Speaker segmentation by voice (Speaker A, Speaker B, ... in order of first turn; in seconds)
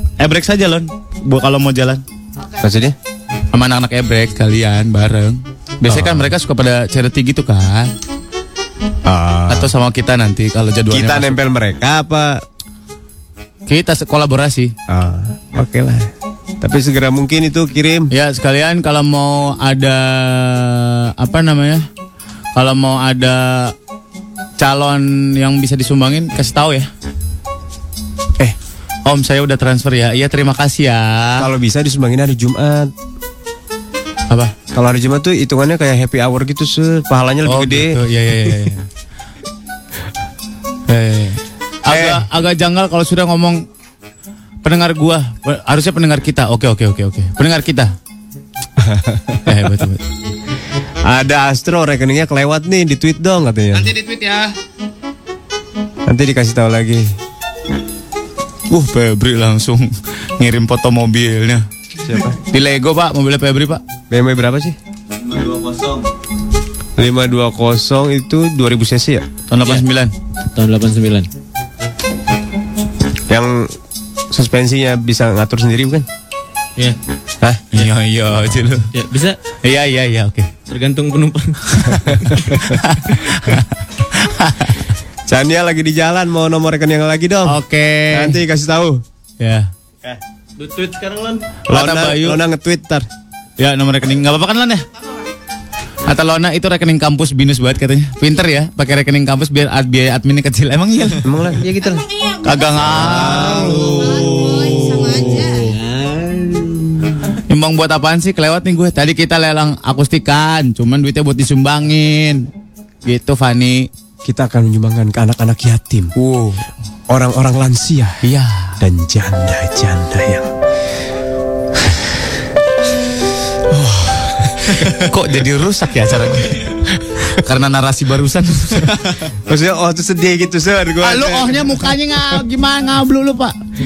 Speaker A: 0.2-2.0, 3.5-7.9, 9.5-11.4, 13.7-14.7, 18.1-21.8, 22.5-23.7, 24.6-26.9, 29.1-31.4, 37.5-38.8, 40.9-43.6, 44.6-47.9, 49.5-50.0, 53.9-54.5, 58.7-61.6, 62.5-63.8, 69.5-70.1, 77.7-78.9, 79.6-80.5, 82.9-83.6, 84.2-84.7, 87.5-88.4, 89.4-89.7, 91.7-92.4, 93.6-94.8, 96.0-101.2, 102.4-105.5, 107.5-112.5, 113.0-113.9, 116.2-116.7, 118.2-118.7, 125.0-126.8, 127.3-129.2, 131.0-133.6
Speaker B: 2.6-3.0, 5.8-6.3, 9.1-9.7, 10.9-12.4, 14.9-16.1, 16.6-18.1, 31.4-32.9, 34.7-38.0, 41.9-42.2, 48.8-49.4, 51.0-53.9, 56.1-57.1, 62.0-62.4, 64.1-64.8, 67.0-69.2, 73.3-73.7, 74.3-76.1, 85.3-87.6, 88.1-89.0, 91.7-93.0, 101.2-102.0, 102.9-105.6, 114.2-116.1, 117.1-118.2, 118.8-120.5, 123.7-124.2, 129.5-131.6
Speaker C: 70.5-71.3, 78.9-79.3, 80.7-81.8, 90.6-91.4, 106.0-106.3